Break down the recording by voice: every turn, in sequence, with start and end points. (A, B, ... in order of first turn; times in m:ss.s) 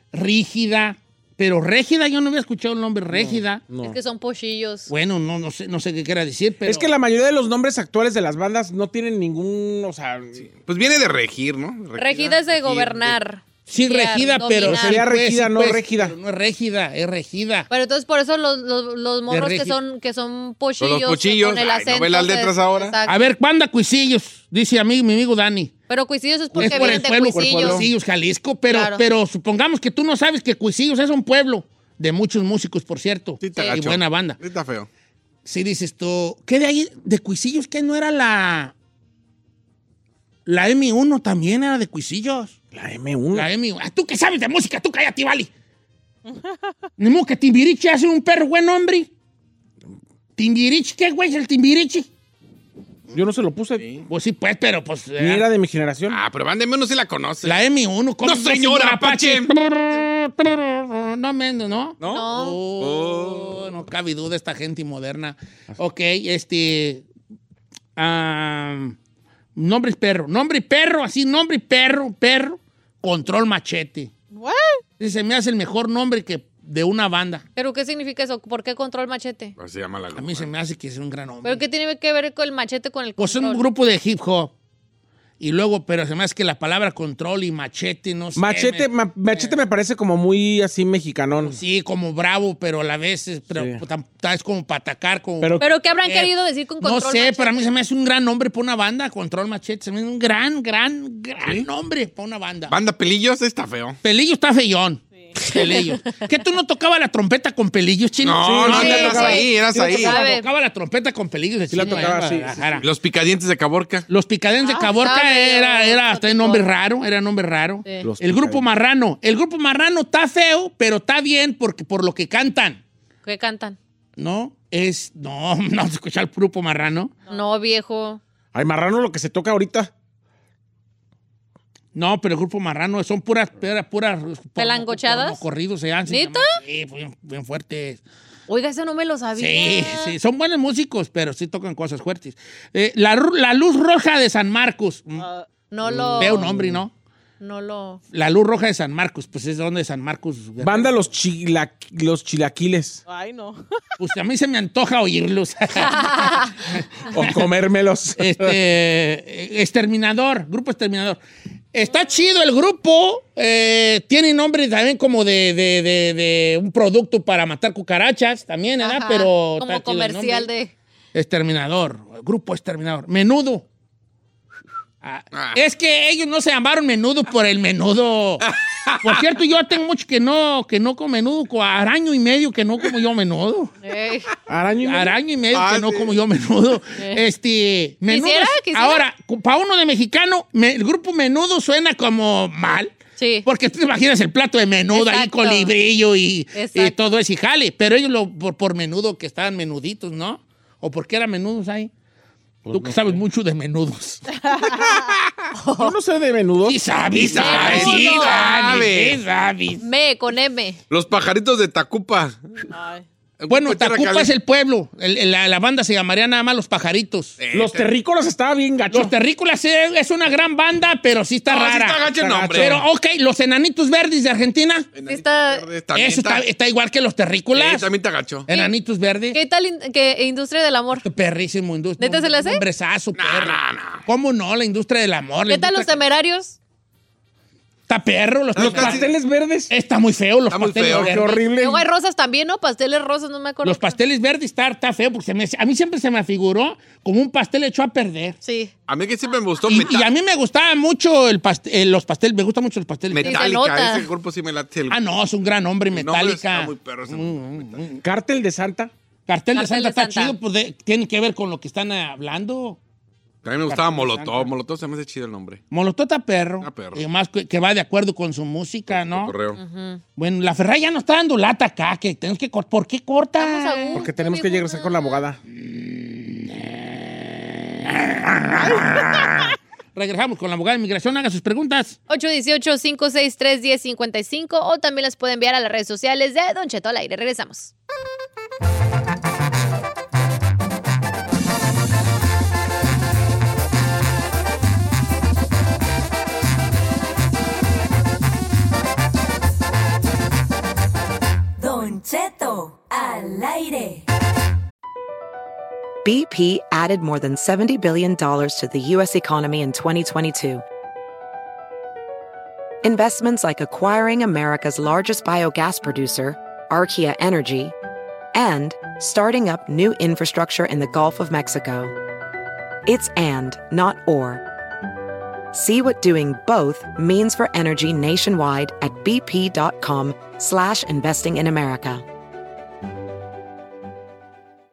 0:00.1-0:03.6 A
0:03.1-0:04.0 B
0:03.8-0:04.9 C
0:04.9-0:06.9 A
0:06.6-0:10.4 B
0:10.4-0:13.2 D
0:12.0-0:15.0 C
0:13.6-0:17.7 A
0:14.6-0:16.1 B
0:17.7-0:23.2 C
0:19.3-0:19.8 A
0:20.8-0:23.0 D
0:23.0-0:25.7 A
0:25.9-0:27.8 C
0:26.5-0:27.9 B
0:26.5-0:34.4 A
0:28.7-0:29.0 C
0:33.4-0:34.9 D
0:35.4-0:38.7 A
0:40.4-0:42.5 A
0:42.7-0:43.5 B
0:43.3-0:45.5 A
0:46.2-0:46.6 E
0:47.0-0:49.1 A
0:50.4-0:52.1 A
0:53.1-0:53.8 B
0:53.8-0:54.0 D
0:54.1-0:55.4 A
0:55.2-0:56.2 B
0:56.1-0:57.6 D
0:57.4-1:07.0 A
0:58.2-0:59.5 D
1:02.0-1:02.3 D
1:02.0-1:02.6 C
1:02.8-1:03.6 D
1:08.0-1:08.9 A
1:09.5-1:14.1 A
1:14.3-1:14.8 E
1:15.0-1:17.4 A
1:17.6-1:19.6 C
1:19.6-1:20.5 D
1:20.1-1:21.6 A
1:21.4-1:23.6 C
1:23.2-1:24.5 A
1:25.4-1:29.6 A
1:28.4-1:31.6 B
1:31.4-1:42.7 A
1:33.5-1:33.8 B
1:35.6-1:37.7 C
1:42.7-1:44.0 D
1:44.0-1:52.8 A
1:45.4-1:45.9 C
1:48.2-1:50.2 D
1:48.4-1:49.5 B
1:48.7-1:50.4 C
1:51.7-1:52.7 B
1:52.8-1:54.0 D
1:54.1-2:02.8 A
1:54.6-1:56.7 C
1:58.0-1:58.6 B
2:03.2-2:03.8 C
2:04.2-2:07.1 A
2:07.3-2:08.2 C
2:08.5-2:09.9 B
2:11.9-2:18.0 A
2:14.6-2:15.4 C
2:16.1-2:16.5 C
2:18.5-2:20.1 C
2:19.4-2:25.2 A
2:25.2-2:25.5 E
2:25.7-2:26.5 C
2:25.8-2:26.8 B
2:26.2-2:26.9 A
2:27.4-2:28.0 C
2:28.1-2:30.9 A
2:30.6-2:33.0 B
2:33.1-2:33.6 E
2:34.0-2:37.4 A
2:35.8-2:36.5 C
2:37.1-2:38.6 B
2:38.2-2:41.2 A
2:41.7-2:50.5 A
2:48.8-2:50.7 C
2:51.1-2:53.6 A
2:55.0-2:58.4 A
2:55.3-2:55.6 D
2:58.5-2:59.2 D
2:59.0-3:03.7 A
3:03.8-3:04.3 C
3:04.5-3:05.1 B
3:04.8-3:12.9 A
3:05.5-3:06.1 D
3:07.0-3:07.2 C
3:08.1-3:09.0 C
3:13.2-3:13.4 C
3:13.4-3:21.9 A
3:14.9-3:15.7 C
3:16.5-3:16.9 C
3:22.6-3:23.2 B
3:22.7-3:24.2 A
3:24.4-3:25.0 E
3:25.5-3:25.9 C
3:25.8-3:26.8 B
3:26.6-3:29.8 A
3:27.2-3:29.2 D
3:27.4-3:28.8 C
3:29.8-3:30.8 C
3:30.9-3:32.4 D
3:32.7-3:33.0 E
3:33.4-3:34.3 D
3:33.5-3:37.4 A
3:37.4-3:37.9 D
3:37.5-3:39.1 B
3:38.9-3:44.9 A
3:41.5-3:42.8 D
3:42.1-3:42.8 B
3:44.9-3:46.4 D
3:45.1-3:45.6 C
3:45.9-3:47.9 A
3:47.5-3:48.5 D
3:48.4-3:49.4 A
3:49.3-3:51.0 C
3:51.0-3:56.0 A
3:52.0-3:52.6 C
3:53.2-3:54.0 D
3:55.5-3:56.6 C
3:57.9-3:59.1 A
3:58.6-3:59.1 D
3:58.6-3:59.7 B
3:59.7-4:01.4 A
4:00.5-4:01.2 D
4:00.8-4:01.9 B
4:01.3-4:04.0 C
4:03.6-4:08.4 A
4:08.4-4:08.7 C
4:08.9-4:10.1 D
4:09.6-4:13.5 A
4:13.1-4:15.0 D
4:13.2-4:14.1 C
4:14.9-4:18.0 A
4:15.9-4:17.8 D
4:18.0-4:18.9 B
4:19.3-4:22.8 A
4:19.5-4:20.4 C
4:23.4-4:25.6 D
4:23.6-4:24.5 A
4:25.7-4:29.3 A
4:26.6-4:27.0 D
4:28.9-4:29.6 D
4:29.6-4:30.0 C
4:30.2-4:34.0 A
4:33.4-4:35.2 C
4:33.9-4:35.4 B
4:35.5-4:42.0 A
4:42.1-4:47.7 C
5:01.6-5:04.0 F
5:06.0-5:10.6 G
5:12.8-5:17.7 G
5:18.3-5:21.9 G
5:22.8-5:24.4 G
5:25.5-5:32.0 G